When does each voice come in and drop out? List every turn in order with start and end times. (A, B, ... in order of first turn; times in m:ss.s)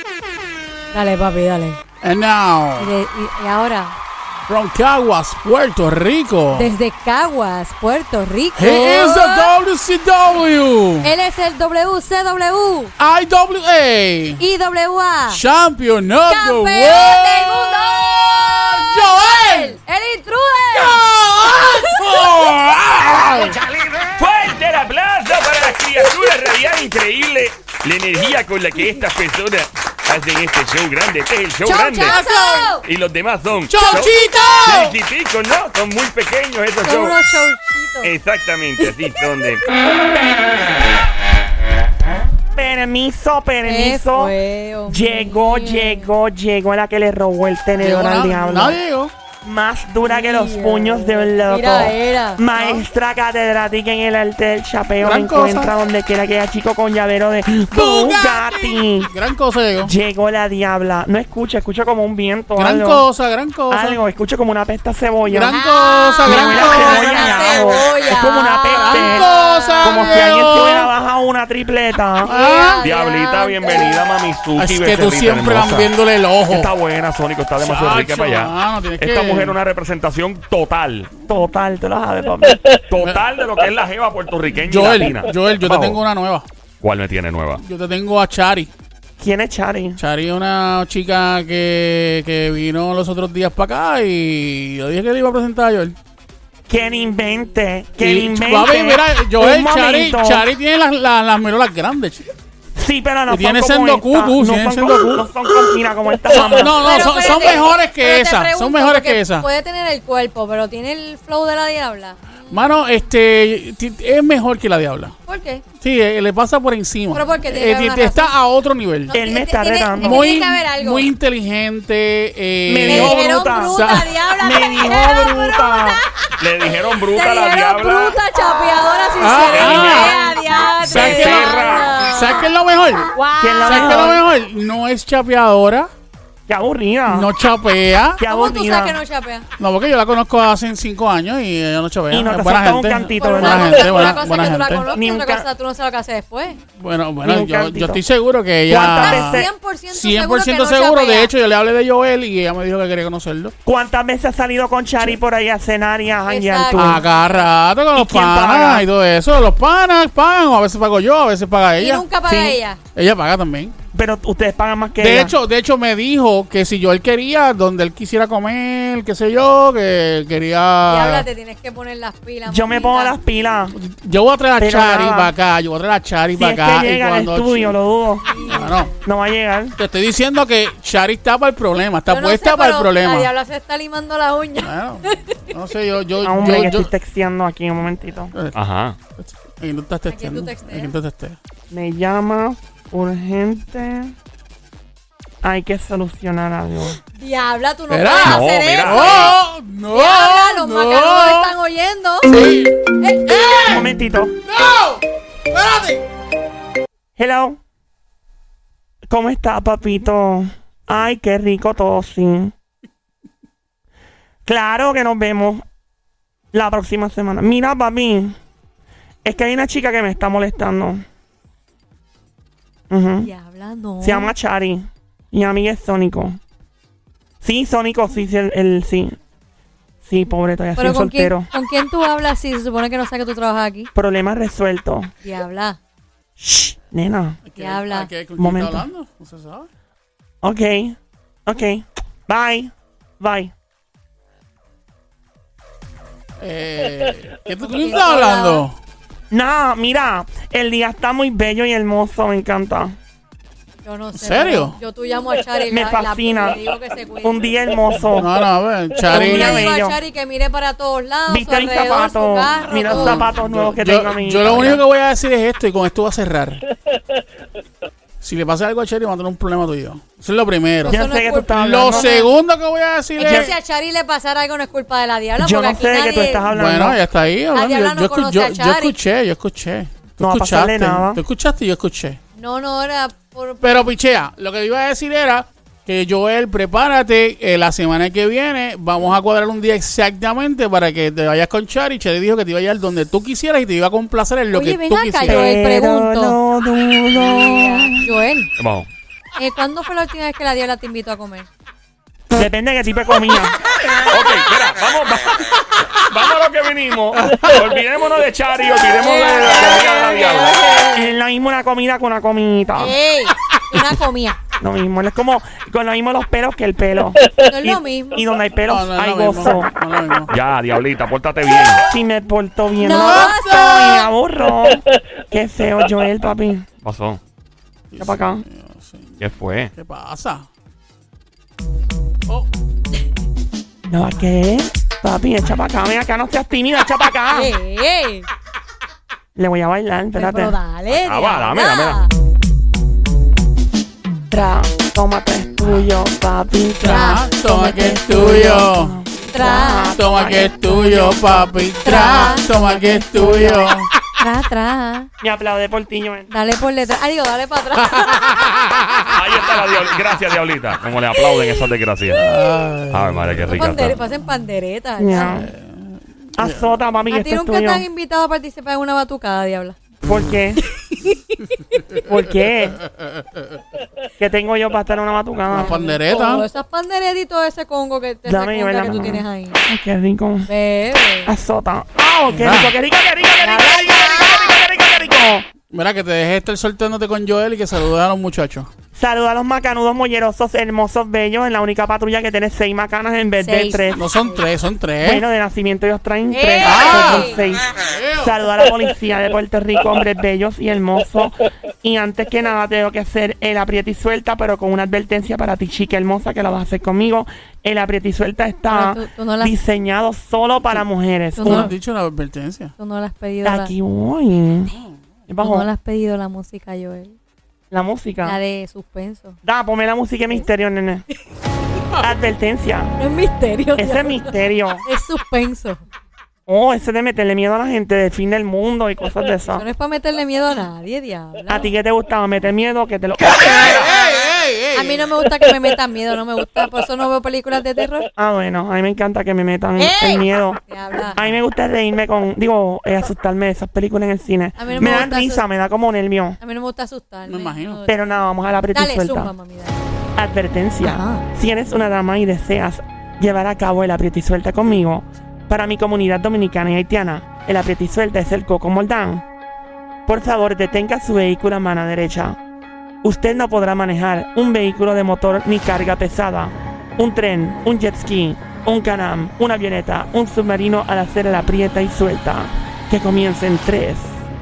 0:00.9-0:01.8 A
0:02.0-0:02.9 B
0:02.8-0:03.9 A
0:04.5-0:06.7 B
0:06.5-0:09.5 A
0:08.6-0:11.1 B
0:11.0-0:12.9 A
0:13.0-0:14.4 B
0:14.4-0:15.4 A
0:15.3-0:19.8 B
0:16.2-0:18.0 A
0:19.2-0:21.0 A
0:20.7-0:23.6 B
0:21.7-0:22.0 A
0:24.0-0:32.2 C
0:31.6-0:32.8 A
0:31.9-0:32.8 B
0:32.8-0:37.2 C
0:33.7-0:35.0 B
0:36.8-0:38.1 A
0:38.0-0:39.7 C
0:42.5-0:44.3 D
0:43.6-0:46.1 A
0:44.9-0:48.8 D
0:47.8-0:49.1 B
0:49.4-0:59.1 D
0:50.0-0:52.8 A
0:55.0-0:55.7 B
0:57.7-0:59.9 B
0:59.8-1:03.0 D
1:02.6-1:04.0 B
1:03.7-1:05.5 D
1:05.2-1:07.5 B
1:05.5-1:09.7 A
1:06.2-1:09.3 D
1:08.7-1:10.9 B
1:09.8-1:12.3 D
1:12.2-1:14.0 A
1:12.2-1:12.8 B
1:12.8-1:15.9 C
1:14.6-1:16.7 B
1:16.5-1:21.1 C
1:17.6-1:19.6 B
1:21.3-1:22.6 D
1:22.8-1:26.0 C
1:23.0-1:23.2 B
1:24.6-1:26.5 B
1:26.8-1:27.6 C
1:27.6-1:28.7 B
1:29.2-1:30.0 D
1:30.0-1:36.0 B
1:36.7-1:40.4 D
1:38.0-1:42.3 B
1:42.8-1:47.4 D
1:43.3-1:45.3 B
1:46.3-1:49.5 B
1:46.5-1:52.5 A
1:52.5-1:55.2 B
1:55.3-1:55.6 A
1:55.8-1:59.2 B
1:57.1-1:58.3 A
1:59.1-2:01.1 A
1:59.1-2:00.3 D
2:00.0-2:04.1 B
2:02.7-2:06.0 D
2:02.8-2:12.5 A
2:06.4-2:08.2 C
2:09.2-2:15.9 B
2:09.6-2:10.1 C
2:10.8-2:11.9 C
2:13.1-2:14.1 A
2:13.4-2:14.2 D
2:16.5-2:17.3 D
2:17.1-2:18.2 B
2:18.2-2:19.0 D
2:18.2-2:19.4 A
2:19.6-2:24.9 B
2:22.1-2:24.1 D
2:23.2-2:26.6 A
2:24.9-2:25.4 D
2:26.8-2:33.5 B
2:27.2-2:28.0 D
2:28.6-2:29.5 D
2:28.9-2:31.3 A
2:33.6-2:37.0 D
2:36.2-2:37.0 A
2:36.7-2:42.1 B
2:37.9-2:38.8 D
2:41.8-2:42.8 A
2:42.2-2:42.6 D
2:42.9-2:43.8 B
2:43.9-2:45.3 D
2:45.0-2:51.3 B
2:50.9-2:53.2 A
2:52.5-2:53.7 D
2:53.7-2:57.8 B
2:54.6-2:55.3 D
2:56.4-2:58.3 D
2:58.2-2:59.0 A
2:58.4-2:58.9 B
2:59.0-2:59.8 D
2:59.8-3:03.3 B
3:02.1-3:05.5 A
3:04.6-3:06.9 B
3:06.2-3:08.3 D
3:08.5-3:09.0 C
3:09.2-3:11.4 B
3:10.1-3:10.9 A
3:11.7-3:14.1 D
3:15.4-3:17.0 D
3:17.1-3:19.4 A
3:17.9-3:21.5 B
3:18.2-3:19.3 C
3:19.9-3:22.4 A
3:22.2-3:26.0 B
3:23.0-3:23.7 A
3:23.7-3:24.3 D
3:27.2-3:27.6 D
3:29.1-3:32.5 D
3:34.4-3:35.6 D
3:36.5-3:38.4 D
3:39.2-3:41.0 D
3:42.9-3:43.3 D
3:43.2-3:44.3 A
3:44.0-3:46.4 D
3:47.4-3:49.2 D
3:50.0-3:51.5 D
3:50.8-3:53.9 A
3:53.9-3:55.1 D
3:55.2-3:55.8 A
3:56.4-3:57.4 D
3:57.4-3:59.7 B
3:57.6-3:58.1 A
3:58.4-3:58.8 D
4:00.4-4:03.5 D
4:06.4-4:08.8 B
4:07.6-4:08.6 A
4:09.3-4:13.0 D
4:13.8-4:17.5 A
4:14.1-4:14.8 B
4:15.7-4:16.6 D
4:17.2-4:18.3 D
4:18.1-4:19.7 B
4:19.0-4:20.0 D
4:19.1-4:23.3 A
4:21.3-4:24.8 D
4:22.9-4:26.6 B
4:28.2-4:33.5 B
4:30.8-4:32.1 D
4:30.8-4:32.3 A
4:33.2-4:36.5 A
4:33.2-4:33.5 D
4:35.4-4:37.0 D
4:36.5-4:42.2 B
4:37.5-4:39.0 A
4:40.2-4:41.2 D
4:42.4-4:43.8 A
4:43.6-4:55.5 B
4:54.5-4:56.4 A
4:55.2-4:58.1 D
4:57.1-4:58.5 A
4:58.6-4:58.9 C
4:59.4-5:01.5 A
5:02.3-5:03.6 D
5:04.1-5:10.7 C
5:07.2-5:07.5 B
5:09.0-5:11.1 A
5:10.9-5:12.9 D
5:12.7-5:14.4 A
5:14.6-5:19.7 D
5:17.3-5:18.2 A
5:18.7-5:20.3 B
5:20.3-5:21.8 C
5:21.9-5:26.6 D
5:22.8-5:24.1 A
5:22.9-5:24.0 B
5:26.8-5:27.2 C
5:27.9-5:29.2 B
5:28.0-5:28.4 D
5:29.2-5:29.7 C
5:29.7-5:30.5 B
5:33.9-5:37.5 D
5:37.3-5:38.3 A
5:39.4-5:40.6 D
5:40.1-5:42.1 A
5:40.9-5:42.0 C
5:44.3-5:53.7 D
5:46.8-5:48.9 B
5:46.8-5:47.2 A
5:49.3-5:50.0 A
5:49.9-5:53.9 B
5:51.8-5:52.4 A
5:54.2-5:55.1 A
5:55.2-5:56.3 D
5:56.3-5:58.5 A
5:57.8-5:59.1 B
5:59.1-6:02.2 C
6:02.1-6:04.4 B
6:02.9-6:04.0 C
6:03.5-6:05.4 A
6:05.0-6:05.5 D
6:05.2-6:06.8 B
6:06.4-6:07.8 D
6:07.1-6:09.8 A
6:10.0-6:10.6 D
6:10.7-6:12.0 A
6:12.0-6:12.8 D
6:12.9-6:13.6 B
6:14.2-6:15.8 D
6:15.5-6:16.5 B
6:15.5-6:19.6 A
6:18.2-6:20.5 D
6:20.5-6:21.3 A
6:21.2-6:25.4 D
6:22.3-6:22.7 B
6:23.4-6:24.6 A
6:25.7-6:28.7 B
6:28.9-6:34.0 D
6:33.4-6:34.4 A
6:33.9-6:35.2 B
6:35.0-6:51.7 D
6:36.3-6:37.4 A
6:36.6-6:38.4 B
6:48.7-6:49.6 A
6:51.4-6:51.7 A
6:51.4-6:52.7 B
6:52.8-6:53.7 A
6:53.4-6:54.7 D
6:55.3-6:55.6 D
6:55.4-6:57.2 A
6:57.7-6:58.4 D
6:58.2-6:59.4 A
6:59.4-7:01.0 D
7:02.0-7:02.9 D
7:03.0-7:05.8 A
7:03.8-7:04.8 D
7:06.5-7:09.6 D
7:09.5-7:11.7 A
7:11.5-7:13.9 D
7:13.5-7:15.5 B
7:14.7-7:18.1 A
7:18.2-7:20.6 D
7:19.8-7:21.2 A
7:21.1-7:26.4 D
7:24.6-7:25.4 A
7:26.4-7:27.9 A
7:27.3-7:27.8 B
7:27.9-7:29.3 D
7:28.7-7:29.8 A
7:30.2-7:39.2 D
7:30.8-7:31.2 A
7:40.0-7:42.4 D
7:43.0-7:54.2 D